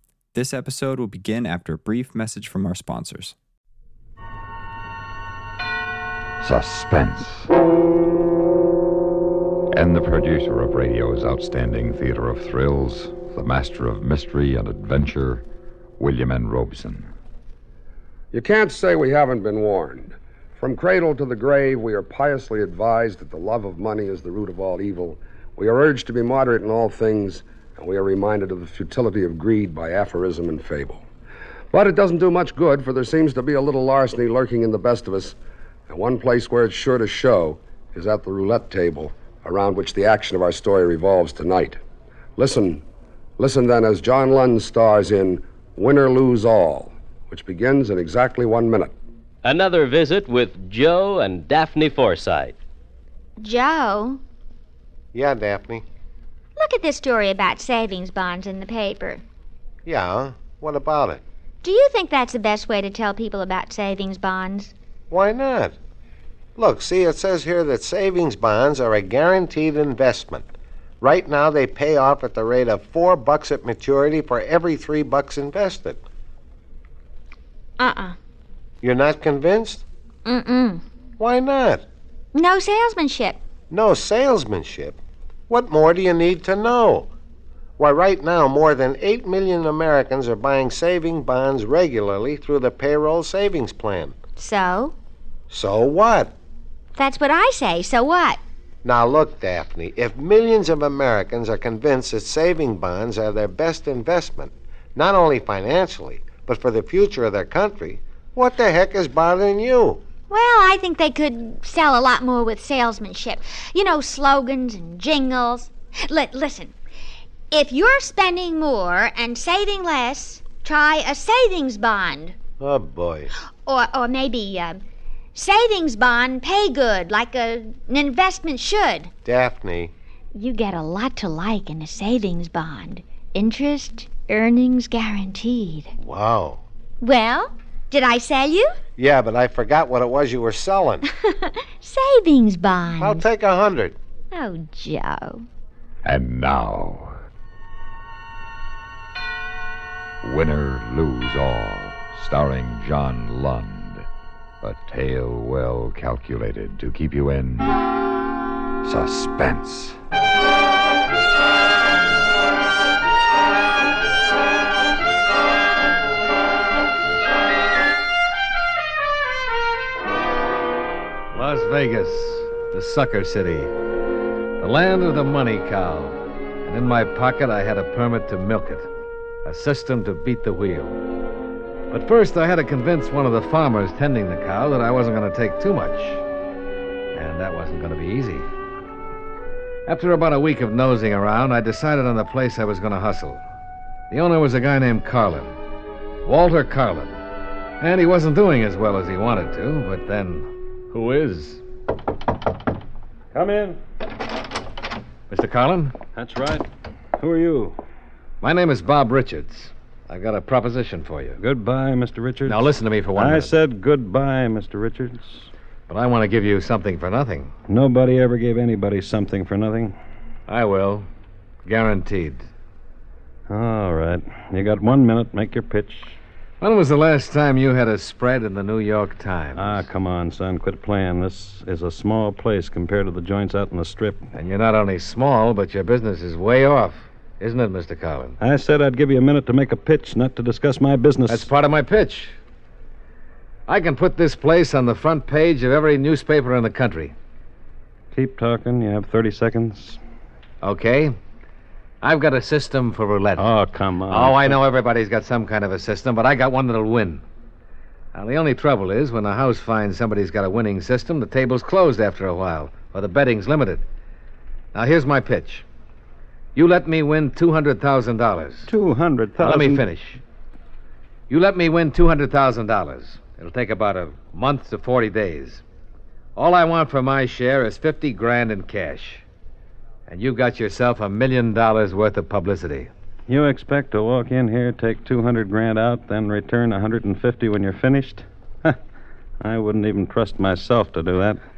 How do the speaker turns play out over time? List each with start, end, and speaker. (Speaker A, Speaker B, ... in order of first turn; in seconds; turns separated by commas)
Speaker A: 0.3-3.3, Speaker B: 6.4-7.5, Speaker B: 9.7-15.4, Speaker B: 16.0-17.1, Speaker C: 18.3-31.0, Speaker C: 31.7-35.4, Speaker C: 35.9-41.8, Speaker C: 42.4-42.8, Speaker C: 43.4-48.9, Speaker D: 49.4-52.5, Speaker E: 53.4-54.2, Speaker F: 55.1-55.8, Speaker E: 56.5-59.2, Speaker F: 59.8-61.2, Speaker E: 61.6-64.7, Speaker F: 65.1-65.8, Speaker F: 66.5-76.0, Speaker E: 77.8-78.2, Speaker F: 78.8-79.8, Speaker E: 80.2-80.8, Speaker F: 81.2-81.8, Speaker E: 82.3-83.4, Speaker F: 83.7-87.1, Speaker F: 87.8-94.2, Speaker E: 94.4-94.9, Speaker F: 95.5-96.3, Speaker E: 97.0-98.4, Speaker F: 98.8-110.0, Speaker E: 110.3-116.7, Speaker E: 117.5-122.4, Speaker F: 122.6-123.3, Speaker E: 123.6-124.8, Speaker E: 125.3-129.1, Speaker F: 129.2-129.9, Speaker E: 130.3-135.9, Speaker F: 136.0-136.6, Speaker E: 137.0-138.8, Speaker F: 139.0-141.0, Speaker E: 141.2-143.2, Speaker F: 143.0-144.0, Speaker E: 144.3-145.4, Speaker B: 146.0-147.2, Speaker B: 150.2-154.1, Speaker B: 154.6-157.8, Speaker B: 158.8-160.0, Speaker G: 171.3-173.7, Speaker G: 174.6-178.9, Speaker G: 179.4-181.0, Speaker G: 181.9-186.2, Speaker G: 187.1-188.5, Speaker G: 189.9-193.4, Speaker G: 194.1-195.5, Speaker G: 196.2-197.2, Speaker G: 197.8-201.6, Speaker H: 203.3-203.8, Speaker G: 205.3-205.9, Speaker H: 206.2-206.6, Speaker H: 207.2-207.8, Speaker G: 208.4-211.4, Speaker H: 211.4-215.5, Speaker G: 212.4-213.5, Speaker G: 215.9-217.5, Speaker H: 217.7-219.9, Speaker G: 220.5-221.1, Speaker G: 221.6-222.4, Speaker H: 223.5-226.2, Speaker G: 226.6-229.8, Speaker H: 229.6-234.2, Speaker G: 234.3-238.4, Speaker H: 238.4-241.5, Speaker G: 241.3-242.3, Speaker G: 243.7-247.1, Speaker H: 248.1-250.0, Speaker G: 250.6-251.2, Speaker G: 252.0-253.5, Speaker H: 253.3-254.6, Speaker G: 254.1-257.2, Speaker G: 258.1-263.8, Speaker G: 264.7-265.6, Speaker G: 266.5-268.7, Speaker H: 268.7-269.8, Speaker G: 269.4-270.2, Speaker G: 271.3-275.6, Speaker G: 276.4-279.2, Speaker G: 280.1-282.9, Speaker H: 283.3-288.8, Speaker H: 289.4-291.4